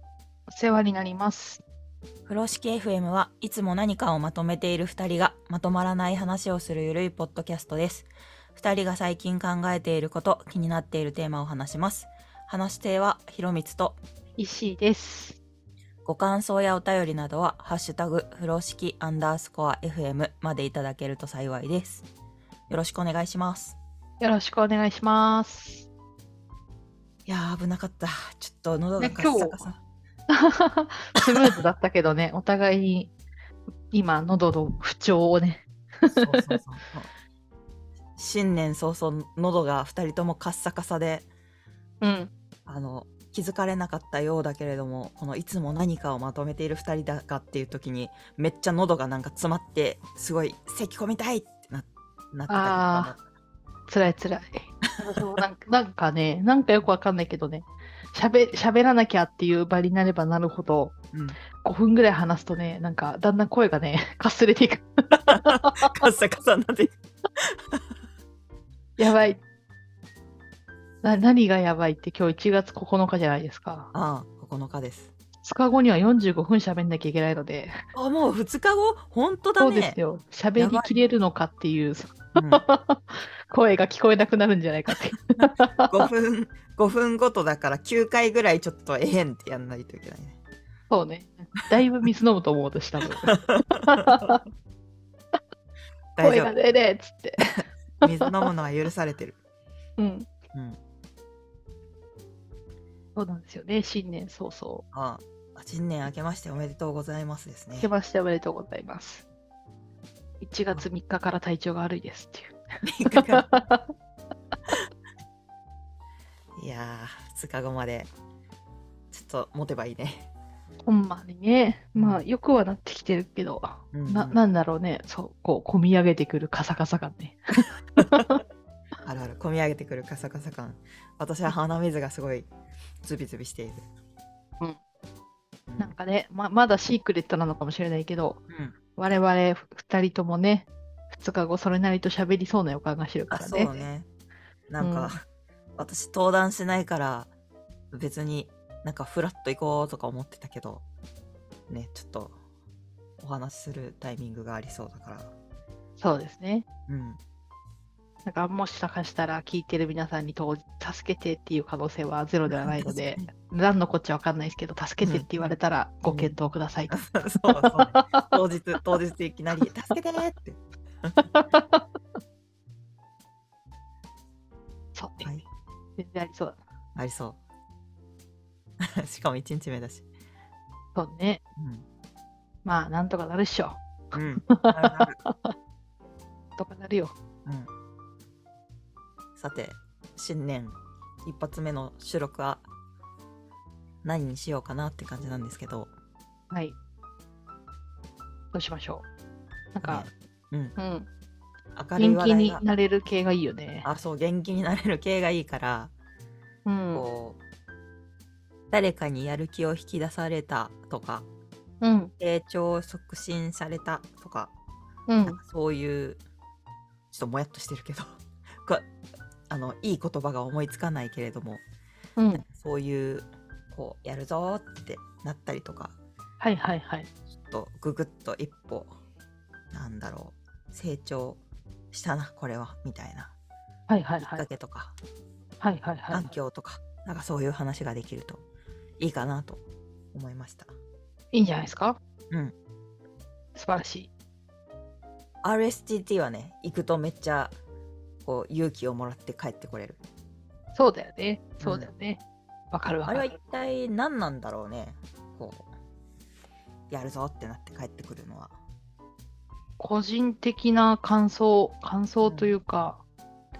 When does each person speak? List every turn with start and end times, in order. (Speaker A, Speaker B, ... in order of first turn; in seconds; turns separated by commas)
Speaker A: 0.5-1.6, Speaker B: 2.3-14.0, Speaker A: 14.4-15.4, Speaker B: 16.1-22.1, Speaker B: 22.7-23.8, Speaker A: 24.2-25.9, Speaker B: 27.3-29.8, Speaker A: 29.0-29.6, Speaker A: 30.3-33.1, Speaker B: 31.2-31.5, Speaker A: 33.9-36.6, Speaker B: 36.1-37.1, Speaker B: 38.2-41.3, Speaker A: 42.0-42.3, Speaker B: 42.7-53.2, Speaker A: 52.5-53.1, Speaker A: 53.9-60.9, Speaker B: 54.9-55.4, Speaker B: 61.1-61.4, Speaker A: 61.6-65.9, Speaker B: 65.3-67.8, Speaker A: 69.0-69.4, Speaker A: 71.0-73.9, Speaker B: 73.9-75.1, Speaker A: 75.4-77.7, Speaker B: 77.9-80.0, Speaker A: 79.6-86.0, Speaker B: 80.6-81.0, Speaker B: 82.4-82.6, Speaker B: 85.4-90.4, Speaker A: 90.9-93.3, Speaker B: 93.2-94.4, Speaker A: 93.9-94.4, Speaker B: 96.2-96.5, Speaker A: 96.2-97.4, Speaker B: 98.0-99.4, Speaker A: 100.0-100.3, Speaker B: 100.5-100.8, Speaker A: 103.2-104.8, Speaker B: 104.9-107.9, Speaker A: 107.8-109.2, Speaker A: 110.4-112.6, Speaker B: 112.8-113.5, Speaker A: 113.1-113.9, Speaker B: 116.6-118.1, Speaker B: 119.1-120.3, Speaker A: 120.8-127.4, Speaker B: 122.0-122.2, Speaker B: 123.9-124.4, Speaker B: 128.0-128.3, Speaker A: 128.0-128.4, Speaker B: 129.0-132.5, Speaker B: 133.0-133.8, Speaker B: 135.7-135.9, Speaker A: 135.8-138.4, Speaker B: 138.5-138.8, Speaker A: 139.0-143.7, Speaker B: 143.3-144.1, Speaker B: 144.7-145.2, Speaker A: 144.8-145.1, Speaker B: 145.8-147.3, Speaker B: 147.9-150.8, Speaker B: 151.7-152.4, Speaker B: 153.2-155.3, Speaker A: 156.0-156.7, Speaker B: 156.9-157.2, Speaker A: 158.3-168.3, Speaker B: 162.5-163.3, Speaker B: 165.0-165.5, Speaker B: 166.1-166.3, Speaker B: 166.9-171.2, Speaker A: 171.2-171.8, Speaker A: 174.9-175.3, Speaker A: 176.0-176.6, Speaker B: 177.0-177.4, Speaker B: 178.8-180.0, Speaker A: 180.9-181.4, Speaker B: 181.6-181.8, Speaker A: 182.7-185.5, Speaker B: 184.1-185.2, Speaker A: 186.6-187.2, Speaker B: 189.4-192.7, Speaker B: 194.0-195.9, Speaker A: 198.5-199.1, Speaker A: 199.7-200.1, Speaker B: 199.8-200.8, Speaker A: 200.8-201.1, Speaker B: 201.8-202.6, Speaker A: 202.0-203.9, Speaker B: 203.8-205.9, Speaker A: 206.7-207.1, Speaker B: 206.9-207.4, Speaker B: 208.7-211.3, Speaker A: 211.8-212.1, Speaker B: 212.2-214.5, Speaker A: 215.1-215.4, Speaker B: 215.3-216.2, Speaker B: 217.1-218.9, Speaker B: 219.5-221.6, Speaker A: 222.2-222.4, Speaker B: 222.3-225.9, Speaker A: 226.4-227.1, Speaker B: 227.3-228.9, Speaker B: 229.7-231.4, Speaker B: 231.9-233.3, Speaker A: 233.9-234.4, Speaker B: 234.2-234.9, Speaker A: 235.6-236.3, Speaker B: 236.1-238.4, Speaker B: 239.0-240.7, Speaker A: 241.3-242.0, Speaker A: 243.6-244.1, Speaker B: 245.4-247.6, Speaker B: 248.2-250.0, Speaker A: 250.8-252.2, Speaker B: 251.6-251.9, Speaker A: 252.7-253.3, Speaker B: 253.1-255.7, Speaker B: 256.9-258.6, Speaker A: 259.8-263.0, Speaker B: 262.2-262.6